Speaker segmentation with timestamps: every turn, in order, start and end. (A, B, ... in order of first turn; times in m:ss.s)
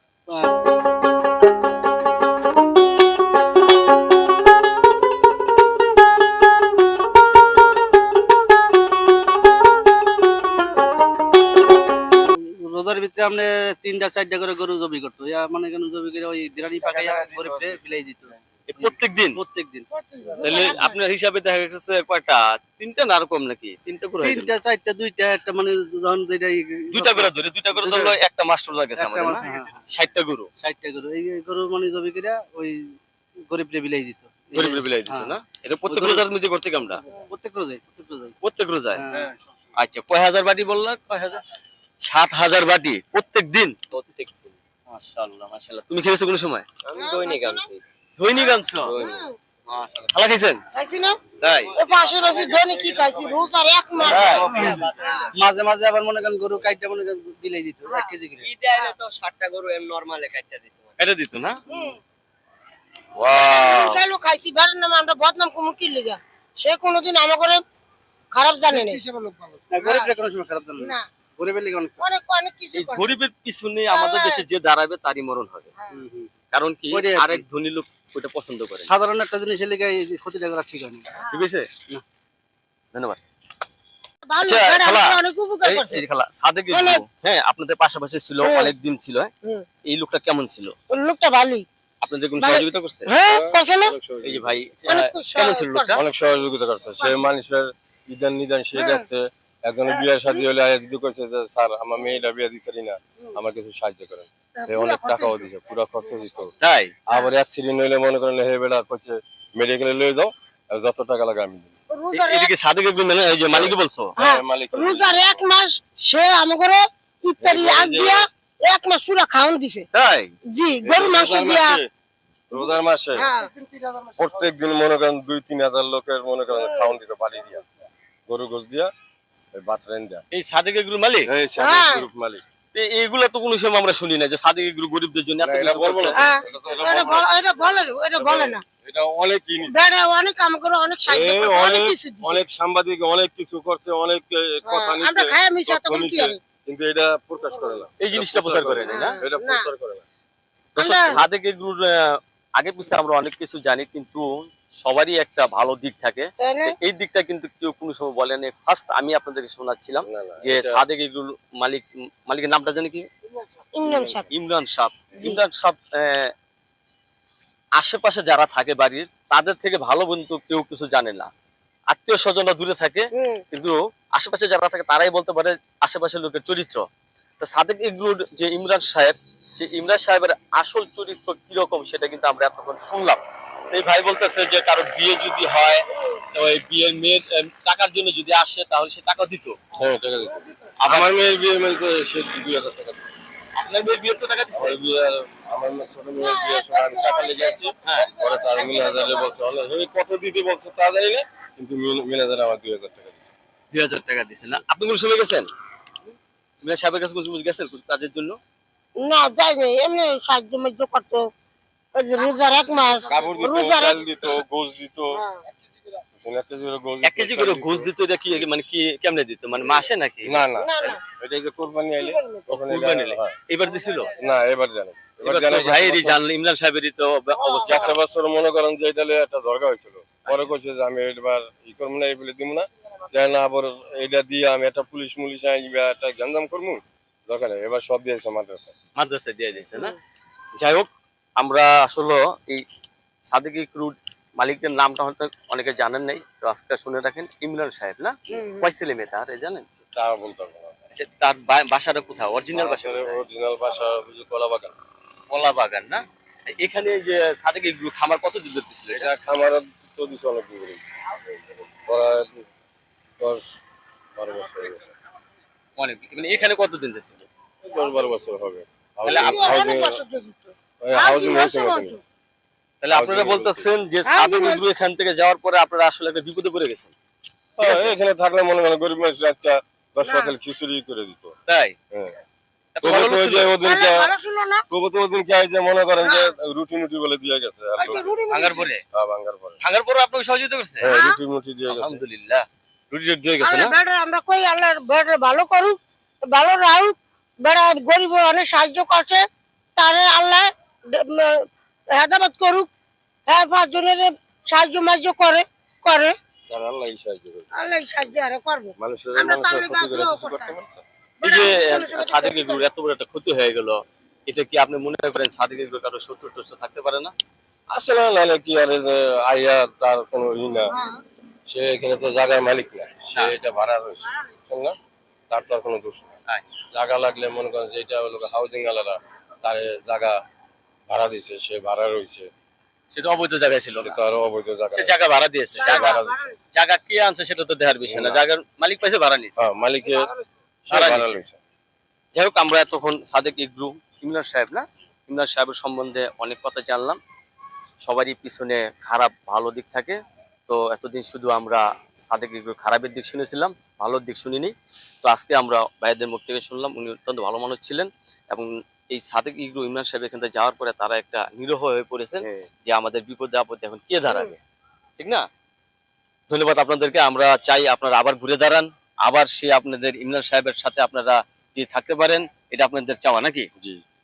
0:12.2-0:19.9 A
0:18.7-0:19.4 B
0:19.9-0:21.0 C
0:20.4-0:24.5 B
0:24.2-0:28.2 A
0:26.9-0:30.5 B
0:29.0-0:29.8 A
0:30.6-0:32.8 A
0:33.5-0:36.2 A
0:34.5-0:37.0 B
0:37.1-0:38.3 A
0:38.4-0:39.0 B
0:38.9-0:39.3 A
0:39.7-0:41.4 B
0:42.0-0:43.8 B
0:43.9-0:44.5 D
0:44.9-0:46.7 B
0:46.8-0:47.8 D
0:46.9-0:47.7 C
0:48.2-0:49.0 B
0:48.3-0:49.4 C
0:48.8-0:49.2 D
0:49.7-0:50.6 B
0:50.7-0:55.3 C
0:51.4-0:51.8 B
0:51.4-0:55.3 D
0:54.0-0:54.7 B
0:54.4-0:58.5 A
0:58.4-1:00.9 D
1:01.0-1:01.6 B
1:01.7-1:02.0 C
1:03.1-1:04.0 B
1:03.4-1:07.6 C
1:08.3-1:10.1 C
1:09.7-1:12.2 A
1:10.8-1:11.0 C
1:12.0-1:13.1 C
1:12.7-1:15.7 B
1:13.9-1:14.4 C
1:15.9-1:16.3 A
1:16.5-1:18.9 B
1:16.9-1:17.4 A
1:18.9-1:21.1 A
1:21.2-1:21.4 C
1:21.3-1:21.7 B
1:22.9-1:23.2 B
1:24.2-1:26.0 C
1:24.4-1:29.3 B
1:26.7-1:27.0 C
1:28.4-1:28.7 C
1:29.8-1:30.7 B
1:30.9-1:31.7 C
1:32.0-1:33.1 B
1:32.4-1:33.9 C
1:33.2-1:34.6 E
1:34.2-1:36.0 B
1:34.9-1:36.0 C
1:36.0-1:46.5 E
1:38.8-1:39.0 C
1:39.9-1:40.4 C
1:44.6-1:46.2 C
1:46.6-1:46.9 B
1:47.1-1:51.8 E
1:51.9-1:52.5 C
1:52.1-1:54.2 B
1:53.5-1:55.4 E
1:54.2-1:59.8 C
1:57.4-1:58.2 E
1:59.9-2:00.3 B
2:00.5-2:01.8 C
2:00.8-2:01.9 E
2:02.5-2:03.3 E
2:02.5-2:03.5 C
2:04.0-2:07.6 E
2:06.5-2:06.9 C
2:08.3-2:08.9 E
2:09.5-2:10.2 E
2:10.3-2:11.3 B
2:11.3-2:12.4 E
2:11.6-2:12.0 C
2:12.7-2:16.3 B
2:15.4-2:17.3 E
2:16.1-2:18.6 C
2:18.2-2:19.8 E
2:19.7-2:22.4 C
2:21.1-2:30.0 E
2:24.6-2:26.4 C
2:28.0-2:29.2 B
2:28.8-2:29.6 C
2:30.8-2:31.2 C
2:30.8-2:43.1 B
2:36.4-2:36.8 C
2:40.0-2:40.8 E
2:43.7-2:44.3 C
2:43.9-2:46.3 B
2:47.8-2:51.3 B
2:51.9-2:56.8 B
2:53.2-2:53.4 C
2:57.4-3:09.6 B
3:09.7-3:13.1 E
3:10.8-3:11.1 B
3:13.6-3:14.8 B
3:14.5-3:23.3 E
3:16.2-3:19.4 C
3:23.7-3:25.5 B
3:26.6-3:28.4 B
3:29.0-3:31.2 C
3:32.0-3:34.0 C
3:33.1-3:35.2 E
3:35.1-3:35.4 C
3:36.1-3:37.9 E
3:37.0-3:41.0 B
3:40.2-3:43.4 E
3:40.6-3:41.0 C
3:42.0-3:42.5 C
3:42.5-3:44.1 B
3:44.2-3:46.2 E
3:45.2-3:48.0 B
3:47.3-3:47.9 C
3:47.6-3:58.7 E
3:50.2-3:50.5 B
3:59.0-4:00.0 B
4:00.6-4:02.6 B
4:03.3-4:09.6 B
4:08.3-4:08.7 C
4:09.9-4:10.7 E
4:10.9-4:13.2 B
4:12.5-4:14.8 E
4:15.3-4:19.1 B
4:18.9-4:22.4 E
4:23.2-4:23.5 E
4:24.2-4:24.9 E
4:25.8-4:27.2 B
4:27.6-4:30.0 E
4:29.0-4:29.7 B
4:29.0-4:32.0 C
4:30.8-4:32.0 E
4:32.8-4:36.9 B
4:32.9-4:33.7 E
4:34.0-4:34.6 C
4:37.6-4:41.3 E
4:37.6-4:37.9 B
4:40.0-4:40.3 C
4:41.5-4:41.7 B
4:41.9-4:42.2 E
4:42.8-4:43.5 B
4:42.8-4:44.1 E
4:43.6-4:44.6 C
4:44.7-4:48.2 E
4:46.0-4:46.3 C
4:47.8-4:48.7 C
4:47.9-4:48.8 B
4:48.9-4:49.6 E
4:49.6-4:50.9 B
4:50.8-4:52.0 E
4:50.9-4:51.2 C
4:51.7-4:53.7 B
4:53.4-4:55.8 C
4:56.3-4:59.2 C
4:59.8-5:02.7 C
5:03.3-5:06.1 C
5:06.5-5:07.5 E
5:07.5-5:10.6 C
5:08.8-5:10.8 E
5:11.2-5:12.6 C
5:11.2-5:17.1 B
5:17.7-5:20.7 E
5:20.7-5:21.0 C
5:21.5-5:24.7 E
5:25.3-5:26.1 E
5:26.7-5:30.2 E
5:30.9-5:32.3 E
5:32.9-5:34.0 B
5:33.8-5:34.9 E
5:34.7-5:36.0 B
5:35.6-5:36.4 C
5:35.6-5:36.3 E
5:36.5-5:39.4 B
5:37.8-5:38.2 E
5:39.4-5:40.1 E
5:39.9-5:40.2 C
5:40.6-5:41.4 E
5:40.7-5:41.2 B
5:42.1-5:47.0 B
5:47.8-6:04.4 B
6:05.0-6:05.2 B
6:06.3-6:13.5 B